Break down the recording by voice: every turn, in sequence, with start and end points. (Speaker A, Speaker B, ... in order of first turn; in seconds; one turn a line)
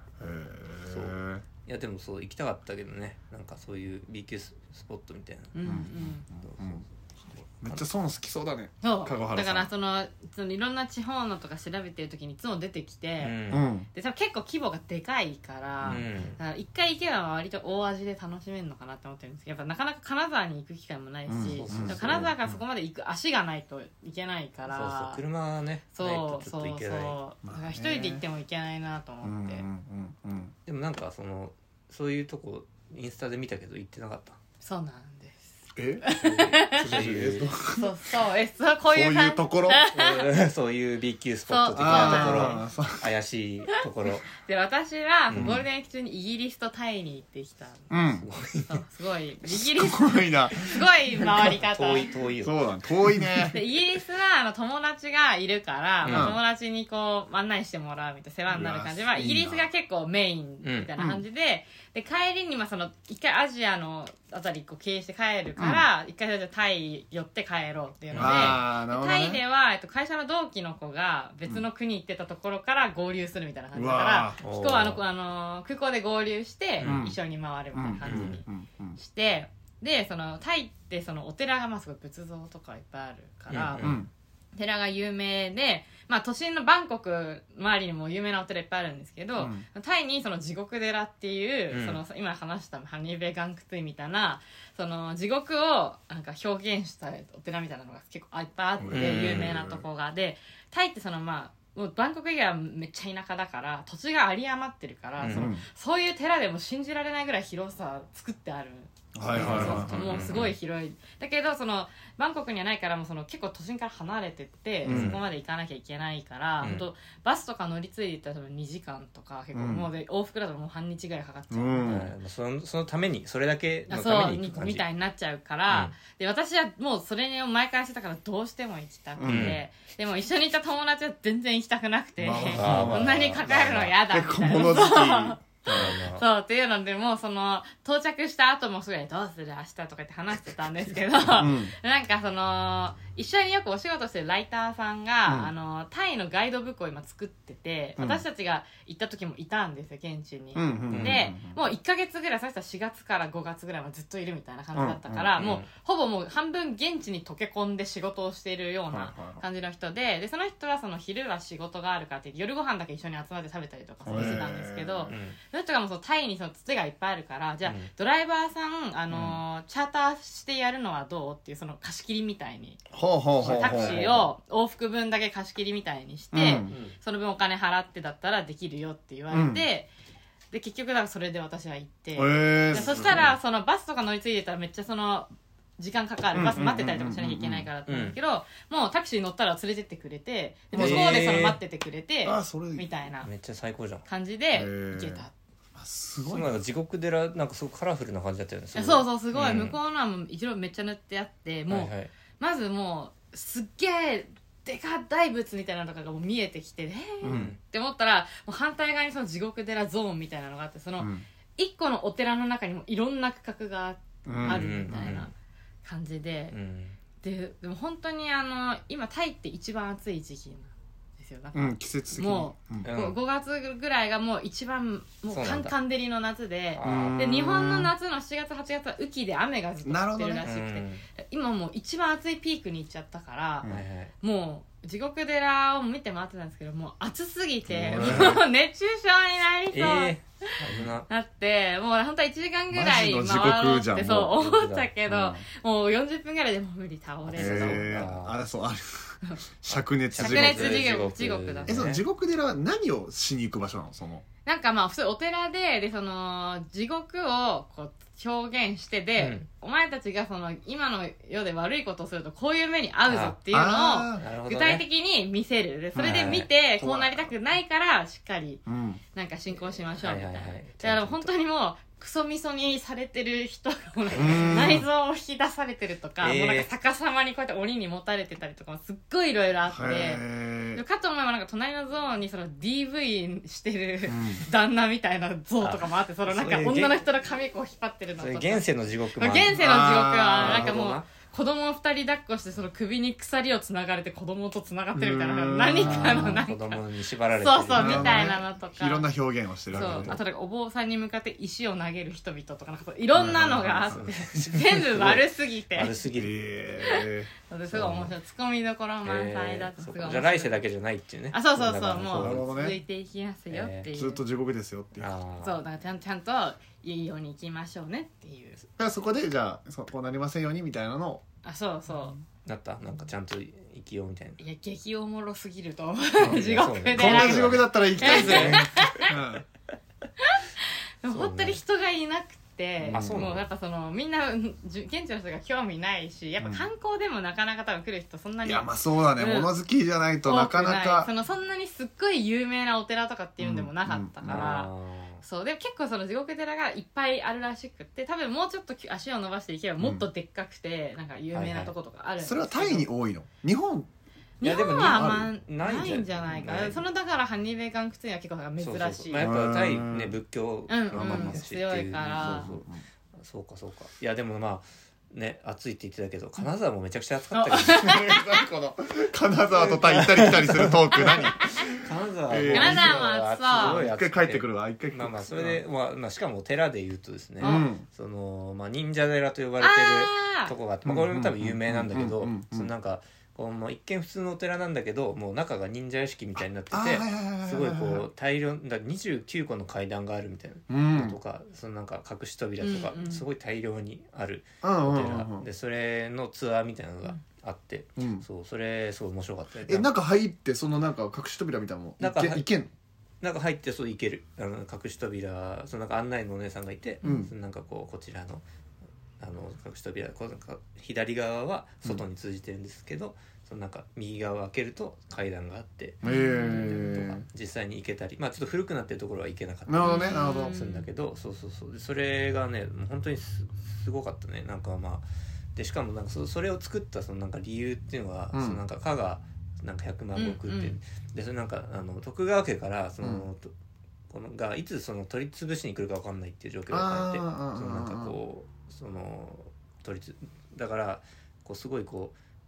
Speaker A: 0.2-1.4
Speaker B: 0.9-5.6
Speaker C: 5.5-6.2
Speaker A: 5.6-6.8
Speaker B: 6.4-7.9
Speaker A: 7.6-9.7
Speaker C: 8.8-13.4
Speaker B: 13.2-13.7
Speaker A: 13.5-13.9
Speaker C: 13.9-25.2
Speaker B: 15.9-16.4
Speaker A: 21.3-22.6
Speaker B: 21.4-22.4
Speaker B: 24.7-27.2
Speaker C: 25.9-29.6
Speaker A: 27.4-28.2
Speaker A: 29.2-30.5
Speaker B: 30.7-34.4
Speaker C: 34.6-37.0
Speaker A: 35.8-36.1
Speaker B: 36.2-37.5
Speaker A: 36.8-37.9
Speaker C: 37.7-40.3
Speaker A: 38.9-39.9
Speaker B: 39.9-44.3
Speaker C: 41.5-42.7
Speaker A: 41.8-43.1
Speaker C: 44.4-47.9
Speaker B: 45.3-45.6
Speaker A: 45.3-45.6
Speaker A: 47.9-48.3
Speaker B: 48.1-48.8
Speaker C: 48.6-52.2
Speaker A: 49.5-51.6
Speaker B: 51.7-52.6
Speaker A: 52.4-53.6
Speaker C: 53.3-84.0
Speaker B: 56.0-56.4
Speaker A: 56.1-56.4
Speaker A: 58.5-59.7
Speaker B: 60.6-60.9
Speaker A: 61.0-61.2
Speaker A: 65.6-65.8
Speaker B: 68.1-68.6
Speaker A: 68.1-69.4
Speaker A: 73.7-74.4
Speaker B: 74.4-75.0
Speaker B: 76.8-77.1
Speaker A: 76.8-77.2
Speaker A: 77.7-79.0
Speaker B: 78.0-78.4
Speaker B: 83.5-84.0
Speaker A: 83.8-84.1
Speaker C: 84.5-122.0
Speaker A: 89.4-89.6
Speaker B: 91.7-92.0
Speaker A: 98.8-99.9
Speaker B: 98.8-99.6
Speaker B: 105.2-105.5
Speaker A: 105.3-105.6
Speaker A: 109.2-110.3
Speaker B: 109.3-110.6
Speaker A: 114.8-115.2
Speaker B: 114.9-115.2
Speaker B: 116.6-116.9
Speaker A: 119.5-119.9
Speaker A: 121.5-122.1
Speaker B: 121.8-124.9
Speaker C: 123.9-172.8
Speaker B: 125.7-126.0
Speaker A: 129.2-129.6
Speaker B: 129.2-129.6
Speaker A: 132.2-133.2
Speaker B: 132.3-134.0
Speaker A: 134.1-136.0
Speaker B: 135.7-136.2
Speaker A: 141.4-141.7
Speaker A: 145.2-145.5
Speaker A: 148.0-148.2
Speaker A: 150.6-151.6
Speaker B: 150.9-151.2
Speaker A: 154.7-155.3
Speaker B: 155.4-155.7
Speaker A: 158.9-159.4
Speaker B: 164.1-164.5
Speaker A: 164.1-165.1
Speaker B: 165.1-165.4
Speaker B: 167.6-167.9
Speaker A: 169.1-169.4
Speaker A: 172.9-174.0
Speaker B: 173.4-174.3
Speaker C: 173.4-179.9
Speaker A: 176.3-176.7
Speaker B: 176.7-177.0
Speaker A: 179.3-179.6
Speaker C: 180.5-193.3
Speaker A: 182.2-183.3
Speaker B: 182.7-183.4
Speaker A: 186.3-187.7
Speaker B: 187.9-188.2
Speaker A: 190.7-191.3
Speaker B: 190.7-191.6
Speaker A: 192.2-192.9
Speaker B: 193.2-194.1
Speaker C: 194.1-195.3
Speaker A: 194.5-196.6
Speaker B: 196.2-199.8
Speaker C: 198.8-215.3
Speaker B: 201.7-202.1
Speaker A: 207.2-207.6
Speaker B: 207.2-207.6
Speaker A: 211.0-211.2
Speaker A: 214.2-215.1
Speaker B: 214.4-215.3
Speaker C: 215.8-216.6
Speaker B: 216.5-217.0
Speaker C: 217.2-233.7
Speaker A: 221.5-222.9
Speaker B: 222.8-223.2
Speaker B: 225.3-225.7
Speaker B: 226.7-227.2
Speaker A: 226.8-227.9
Speaker A: 229.8-230.5
Speaker B: 230.4-231.0
Speaker B: 233.6-234.1
Speaker C: 234.2-240.2
Speaker A: 237.7-238.4
Speaker B: 237.9-238.4
Speaker B: 239.7-241.1
Speaker C: 241.1-247.9
Speaker A: 242.7-244.4
Speaker B: 244.3-244.9
Speaker A: 245.1-245.5
Speaker B: 247.2-248.4
Speaker A: 247.3-250.8
Speaker B: 249.7-252.0
Speaker C: 250.2-251.9
Speaker A: 251.7-254.2
Speaker C: 254.4-299.1
Speaker B: 259.2-259.5
Speaker B: 263.1-263.4
Speaker A: 263.5-264.3
Speaker B: 264.1-264.9
Speaker B: 266.0-267.3
Speaker A: 268.7-269.0
Speaker B: 269.9-271.3
Speaker B: 274.1-274.8
Speaker A: 274.1-274.9
Speaker B: 276.2-276.7
Speaker A: 279.7-280.8
Speaker A: 284.1-284.5
Speaker B: 285.6-287.0
Speaker B: 288.1-289.7
Speaker A: 289.5-290.8
Speaker B: 290.4-291.1
Speaker A: 294.9-296.4
Speaker B: 295.8-298.3
Speaker A: 297.8-300.2
Speaker B: 299.7-300.2
Speaker C: 299.7-306.0
Speaker A: 303.2-304.1
Speaker B: 303.2-306.5
Speaker A: 306.1-307.3
Speaker C: 306.8-310.7
Speaker B: 307.7-308.1
Speaker B: 309.0-312.4
Speaker C: 311.3-314.2
Speaker A: 312.1-312.8
Speaker B: 313.5-313.9
Speaker A: 313.9-315.1
Speaker B: 315.0-315.6
Speaker C: 315.4-318.6
Speaker A: 318.8-321.2
Speaker C: 321.4-322.2
Speaker B: 322.4-324.4
Speaker C: 324.4-329.1
Speaker B: 326.2-329.0
Speaker A: 326.2-329.4
Speaker C: 331.0-339.5
Speaker B: 331.1-331.6
Speaker A: 332.8-333.3
Speaker B: 332.9-333.5
Speaker A: 336.4-336.6
Speaker A: 338.4-341.1
Speaker C: 340.2-352.9
Speaker A: 343.4-344.5
Speaker B: 344.3-345.2
Speaker A: 349.8-350.1
Speaker B: 351.3-351.7
Speaker A: 352.2-353.9
Speaker C: 354.4-359.3
Speaker B: 354.4-356.9
Speaker A: 354.7-355.3
Speaker B: 358.6-368.1
Speaker A: 359.2-360.2
Speaker C: 360.7-362.6
Speaker A: 360.9-361.4
Speaker A: 362.0-362.8
Speaker C: 367.3-368.4
Speaker A: 367.8-375.6
Speaker B: 369.5-399.9
Speaker C: 372.5-373.9
Speaker C: 377.4-377.7
Speaker A: 377.4-377.9
Speaker C: 379.6-380.6
Speaker A: 380.8-382.7
Speaker A: 386.7-388.1
Speaker A: 390.7-391.2
Speaker C: 392.6-393.2
Speaker A: 394.6-395.5
Speaker A: 398.0-398.2
Speaker A: 399.6-402.7
Speaker B: 402.0-402.5
Speaker B: 403.2-408.4
Speaker A: 407.0-407.3
Speaker B: 409.2-433.5
Speaker A: 416.0-417.2
Speaker C: 416.0-416.8
Speaker A: 419.7-420.6
Speaker C: 419.8-420.9
Speaker A: 428.3-428.6
Speaker C: 430.1-430.8
Speaker A: 433.0-433.3
Speaker B: 434.1-442.1
Speaker A: 436.7-438.2